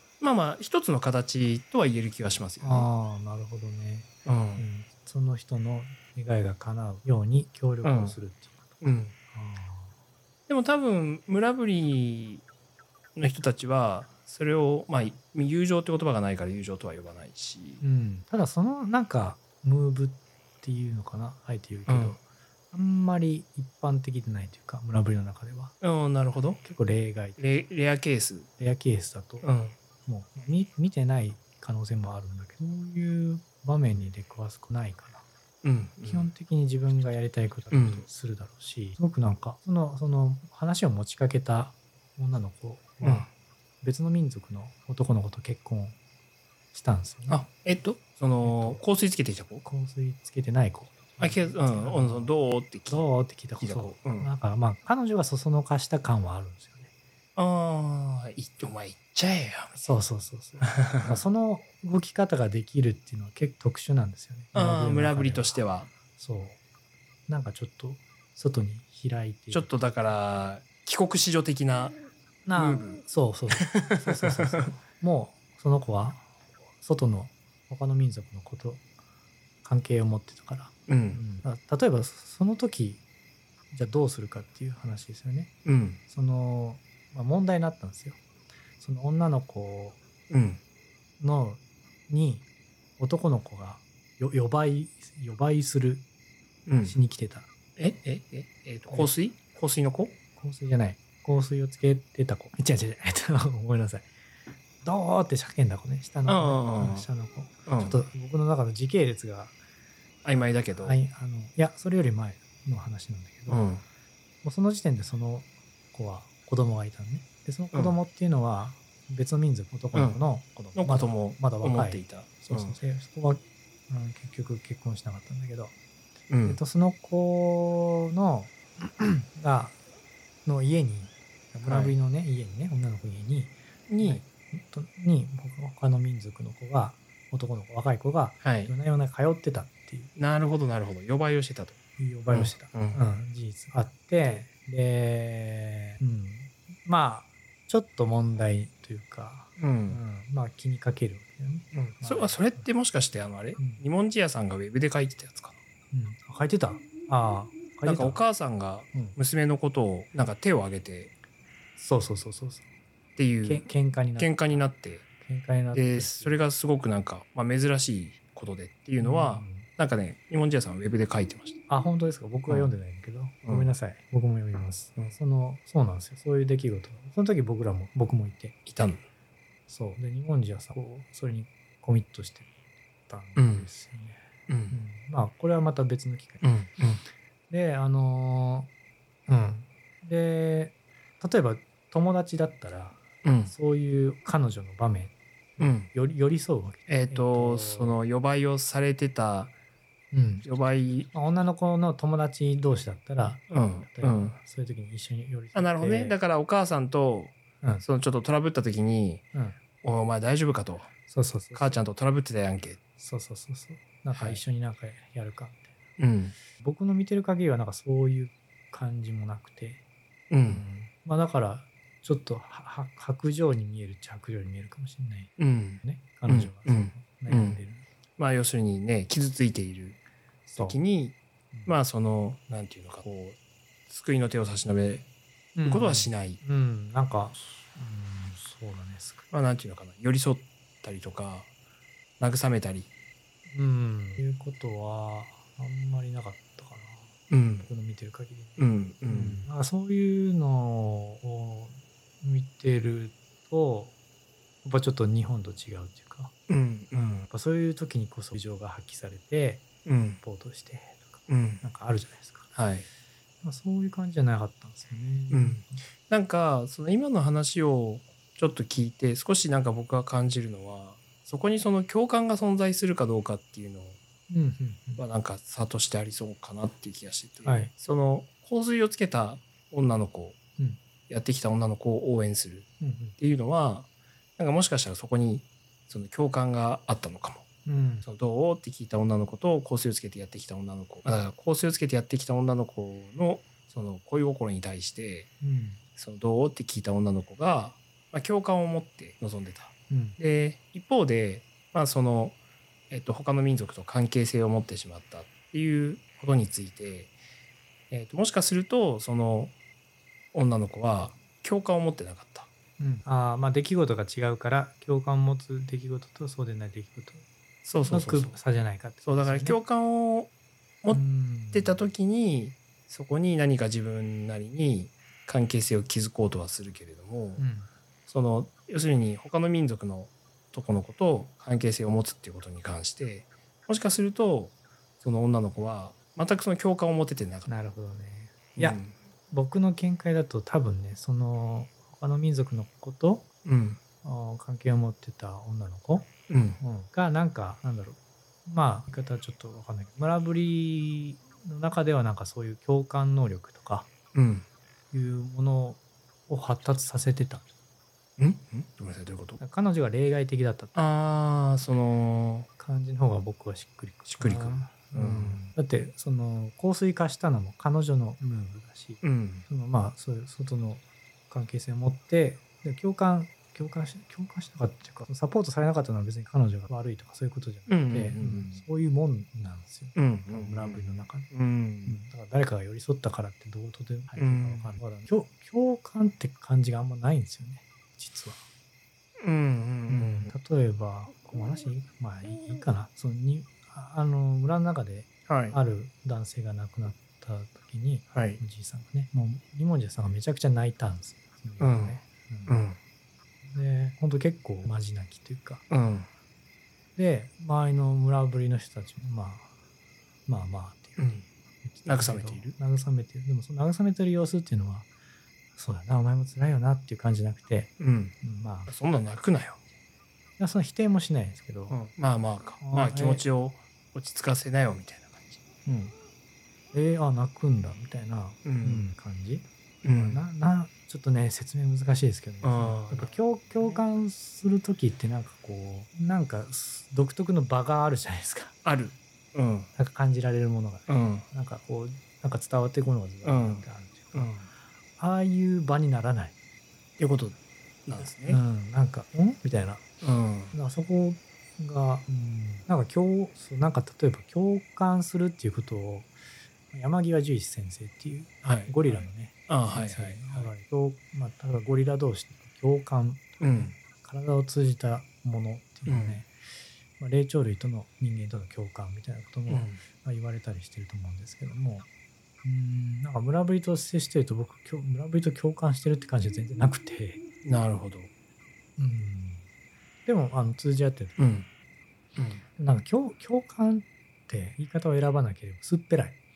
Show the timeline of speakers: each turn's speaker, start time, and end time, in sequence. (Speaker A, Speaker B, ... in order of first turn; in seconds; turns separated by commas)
Speaker A: 0.2-2.9, Speaker B: 2.6-8.8, Speaker A: 4.2-4.7, Speaker A: 7.8-8.2, Speaker A: 8.8-9.1, Speaker B: 9.3-9.9, Speaker A: 10.5-12.4, Speaker A: 13.2-17.8, Speaker B: 17.8-22.2, Speaker A: 21.9-22.2, Speaker B: 22.7-25.8, Speaker A: 25.8-26.6, Speaker B: 26.6-27.4, Speaker A: 27.4-28.5, Speaker B: 28.6-29.4, Speaker A: 29.4-29.8, Speaker B: 30.1-35.2, Speaker A: 35.6-36.3, Speaker B: 36.0-43.3, Speaker A: 37.7-38.0, Speaker A: 43.0-43.3, Speaker B: 43.8-46.0, Speaker B: 46.7-47.4, Speaker A: 47.3-49.6, Speaker B: 48.4-48.8, Speaker B: 49.6-52.3, Speaker A: 51.2-53.1, Speaker B: 52.9-56.9, Speaker A: 53.6-54.3, Speaker A: 57.4-59.8, Speaker B: 59.7-65.6, Speaker A: 60.7-61.2, Speaker A: 64.5-65.9, Speaker B: 66.1-66.6, Speaker B: 67.3-69.7, Speaker A: 69.5-71.9, Speaker B: 72.5-78.8, Speaker A: 72.5-73.0, Speaker A: 73.5-74.7, Speaker B: 79.6-83.0, Speaker A: 80.9-81.2, Speaker B: 83.7-85.5, Speaker A: 85.6-86.0, Speaker B: 86.1-88.2, Speaker B: 88.8-90.0, Speaker A: 90.3-90.6, Speaker B: 91.2-92.5, Speaker B: 93.0-96.0, Speaker A: 96.7-97.0, Speaker B: 96.8-97.5, Speaker A: 97.8-100.1, Speaker B: 100.4-104.1, Speaker B: 104.8-109.5, Speaker A: 106.3-107.1, Speaker A: 107.7-108.0, Speaker A: 110.2-111.0, Speaker B: 110.8-113.7, Speaker A: 113.5-113.8, Speaker B: 114.4-125.7, Speaker A: 119.9-122.8, Speaker A: 126.3-126.6, Speaker B: 126.4-129.8, Speaker B: 130.4-140.1, Speaker A: 131.6-131.9, Speaker A: 133.9-134.2, Speaker A: 138.4-138.7, Speaker A: 140.2-141.8, Speaker B: 142.0-152.7, Speaker A: 142.3-143.0, Speaker A: 149.6-150.0, Speaker A: 151.7-155.6, Speaker B: 153.6-153.8, Speaker B: 155.9-158.2, Speaker A: 157.8-161.1, Speaker B: 161.8-162.6, Speaker A: 163.2-165.0, Speaker B: 163.4-164.7, Speaker B: 165.2-166.3, Speaker A: 165.7-171.6, Speaker B: 169.0-169.7, Speaker B: 171.7-178.6, Speaker A: 173.4-173.7, Speaker A: 178.7-179.0, Speaker B: 179.7-182.5, Speaker B: 183.1-186.4, Speaker A: 183.3-183.7, Speaker A: 184.5-184.8, Speaker A: 186.4-187.0, Speaker B: 187.5-188.7, Speaker B: 189.3-198.0, Speaker A: 193.2-193.5, Speaker A: 195.6-195.9, Speaker A: 196.9-199.5, Speaker B: 200.1-200.5, Speaker A: 200.4-201.1, Speaker B: 201.1-206.2, Speaker A: 203.5-204.3, Speaker A: 205.5-209.2, Speaker A: 209.8-210.9, Speaker B: 211.1-211.8, Speaker A: 211.5-212.8, Speaker B: 213.0-215.7, Speaker A: 214.1-214.4, Speaker A: 216.0-216.3, Speaker B: 216.5-219.8, Speaker A: 220.3-220.6, Speaker B: 220.4-227.8, Speaker A: 225.4-227.6, Speaker A: 228.2-230.0, Speaker B: 230.5-230.8, Speaker A: 230.6-233.4, Speaker A: 233.9-235.0, Speaker B: 235.6-239.3, Speaker A: 235.7-236.4, Speaker A: 239.3-241.5, Speaker A: 242.2-242.9, Speaker B: 243.5-253.9, Speaker A: 247.3-247.7, Speaker A: 248.6-249.4, Speaker B: 254.6-256.3, Speaker A: 256.5-257.0, Speaker B: 256.9-259.7, Speaker A: 259.8-260.2, Speaker B: 260.2-262.5, Speaker A: 261.3-261.6, Speaker A: 262.5-262.9, Speaker B: 263.4-265.8, Speaker A: 265.3-274.0, Speaker B: 274.3-275.0, Speaker A: 275.0-280.4, Speaker B: 277.4-277.7, Speaker A: 281.1-287.4, Speaker B: 282.8-283.2, Speaker B: 287.6-288.1, Speaker A: 288.0-295.3, Speaker B: 295.4-295.8, Speaker A: 296.0-302.4, Speaker B: 299.9-300.2, Speaker A: 302.9-307.1, Speaker A: 307.9-309.5, Speaker A: 310.3-312.5, Speaker B: 312.8-317.2, Speaker A: 317.6-318.4, Speaker B: 317.8-319.6, Speaker A: 319.0-320.3, Speaker A: 320.8-327.4, Speaker B: 320.9-321.8, Speaker B: 327.4-327.7, Speaker A: 328.1-337.5, Speaker B: 337.5-338.8, Speaker A: 338.6-338.9, Speaker B: 339.3-343.3, Speaker A: 343.4-343.8, Speaker B: 344.0-353.9, Speaker A: 346.3-346.6, Speaker A: 354.1-354.4, Speaker B: 354.9-357.4, Speaker A: 358.2-359.4, Speaker B: 359.4-360.7, Speaker A: 360.7-362.5, Speaker B: 362.6-381.3, Speaker A: 364.1-365.4, Speaker A: 369.0-369.4, Speaker A: 377.7-378.6, Speaker A: 379.9-382.0, Speaker B: 381.8-388.4, Speaker A: 384.1-384.8, Speaker A: 389.2-390.3, Speaker B: 389.9-402.6, Speaker A: 395.3-395.6, Speaker A: 398.1-398.4, Speaker A: 401.6-402.8, Speaker B: 403.5-405.6, Speaker A: 405.7-406.1, Speaker B: 406.9-409.5, Speaker B: 410.3-411.0, Speaker A: 411.0-411.2, Speaker B: 411.6-414.9, Speaker A: 411.8-412.6, Speaker B: 415.6-418.7, Speaker A: 417.8-418.1, Speaker A: 418.7-419.6, Speaker B: 420.4-421.8, Speaker A: 421.7-425.4, Speaker B: 422.6-423.2, Speaker B: 425.6-425.9, Speaker B: 426.7-438.5, Speaker A: 428.4-428.9, Speaker A: 429.8-430.2, Speaker A: 432.4-433.8, Speaker A: 438.6-439.7, Speaker B: 439.7-444.4, Speaker A: 440.9-441.2, Speaker A: 443.2-444.5, Speaker B: 445.0-446.3, Speaker A: 447.0-448.4, Speaker B: 448.2-449.8, Speaker A: 450.0-450.5, Speaker B: 450.5-456.1, Speaker B: 456.7-466.3, Speaker A: 458.4-460.5, Speaker A: 463.4-463.7, Speaker A: 465.9-466.2, Speaker B: 467.0-471.9, Speaker A: 469.5-469.8, Speaker B: 472.4-477.2, Speaker A: 477.4-478.1, Speaker B: 478.8-479.4, Speaker B: 480.1-481.2, Speaker A: 481.2-481.5, Speaker A: 482.2-482.4, Speaker B: 482.6-486.2